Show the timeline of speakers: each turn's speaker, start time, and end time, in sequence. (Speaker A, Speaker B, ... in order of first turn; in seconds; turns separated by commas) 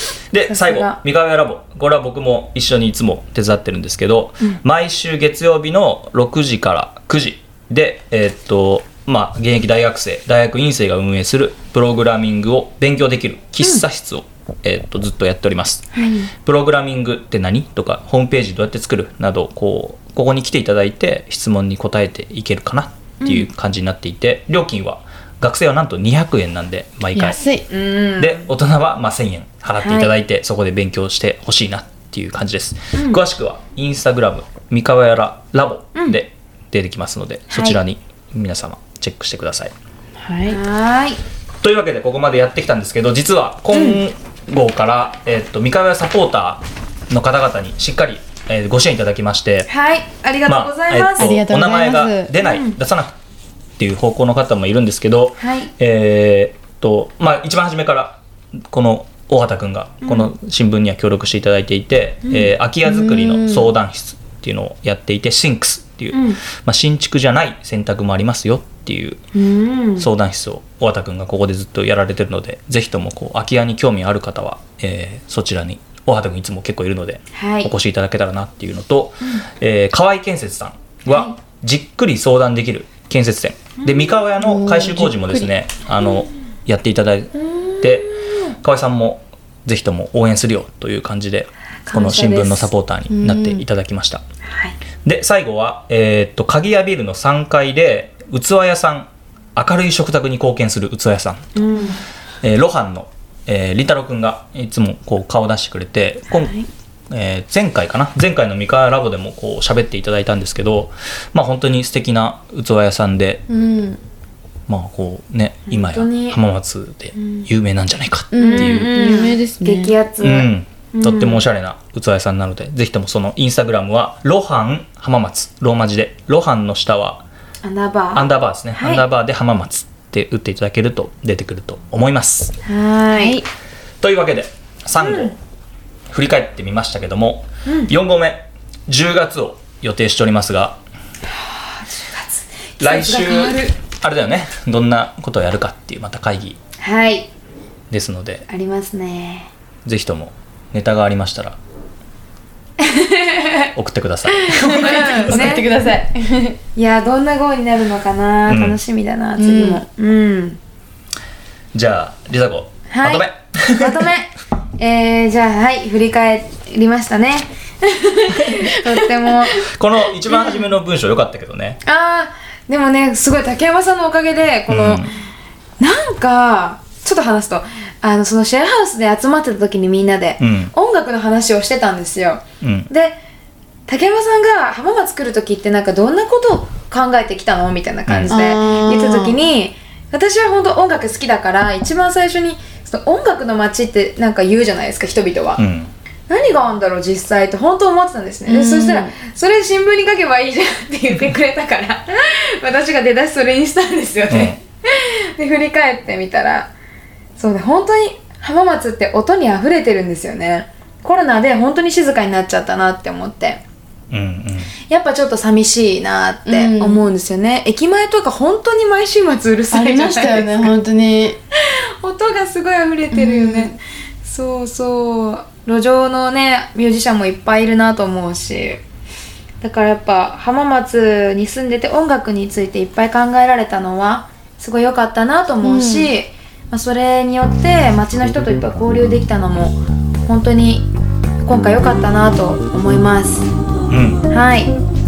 Speaker A: 0.3-27.4, Speaker B: 0.5-1.0, Speaker B: 15.9-16.3, Speaker B: 23.2-23.5, Speaker C: 27.1-27.6, Speaker B: 27.7-28.4, Speaker A: 28.2-39.7, Speaker B: 29.8-30.1, Speaker B: 33.0-33.2, Speaker B: 37.5-37.8, Speaker C: 40.2-40.6, Speaker B: 40.5-41.2, Speaker A: 41.6-49.7, Speaker B: 43.7-44.0, Speaker B: 49.7-51.4, Speaker A: 50.5-53.1, Speaker C: 51.2-52.3, Speaker B: 52.4-52.8, Speaker A: 53.8-58.2, Speaker B: 55.4-55.7, Speaker A: 58.7-69.2, Speaker B: 60.0-60.3, Speaker C: 62.9-63.7, Speaker B: 66.1-66.4, Speaker B: 69.3-70.1, Speaker A: 70.0-94.2, Speaker B: 77.3-77.7, Speaker B: 81.1-81.3, Speaker B: 83.8-84.1, Speaker C: 84.4-85.5, Speaker B: 87.3-88.4, Speaker B: 91.9-92.7, Speaker C: 93.1-93.7, Speaker B: 94.5-94.8, Speaker A: 95.0-101.7, Speaker B: 101.5-102.0, Speaker A: 102.4-106.5, Speaker B: 106.3-106.7, Speaker A: 107.1-113.4, Speaker C: 113.5-114.0, Speaker A: 114.7-119.1, Speaker B: 115.7-116.4, Speaker B: 117.2-117.5, Speaker C: 118.3-119.9, Speaker B: 118.4-121.4, Speaker A: 120.2-127.2, Speaker B: 127.6-129.0, Speaker A: 128.2-132.6, Speaker B: 132.7-133.4, Speaker C: 133.1-133.5, Speaker A: 134.0-135.3, Speaker B: 135.0-135.3, Speaker A: 136.1-140.8, Speaker B: 141.2-143.8, Speaker A: 142.8-146.6, Speaker B: 146.8-147.3, Speaker A: 147.9-148.4, Speaker B: 148.5-149.5, Speaker A: 149.8-151.6, Speaker B: 152.8-153.7, Speaker A: 153.8-155.3, Speaker B: 154.4-155.7, Speaker C: 154.7-156.6, Speaker B: 156.8-160.6, Speaker A: 158.5-158.8, Speaker C: 159.4-159.8, Speaker A: 161.7-164.1, Speaker B: 162.9-169.7, Speaker C: 168.6-169.4, Speaker A: 169.6-171.8, Speaker B: 170.3-170.6, Speaker B: 171.8-175.1, Speaker A: 174.7-175.1, Speaker B: 175.8-183.2, Speaker A: 180.4-180.7, Speaker A: 182.6-182.9, Speaker B: 183.9-195.6, Speaker A: 188.1-188.3, Speaker C: 188.3-189.4, Speaker A: 195.6-195.9, Speaker B: 196.3-206.7, Speaker C: 198.5-199.1, Speaker A: 204.3-204.6, Speaker B: 207.4-213.6, Speaker A: 214.1-214.7, Speaker B: 214.9-220.7, Speaker C: 216.5-217.1, Speaker C: 219.7-221.4, Speaker B: 221.5-228.8, Speaker C: 223.1-223.8, Speaker B: 229.6-240.9, Speaker C: 235.6-236.1, Speaker B: 241.4-243.5, Speaker A: 243.9-244.3, Speaker B: 244.3-244.7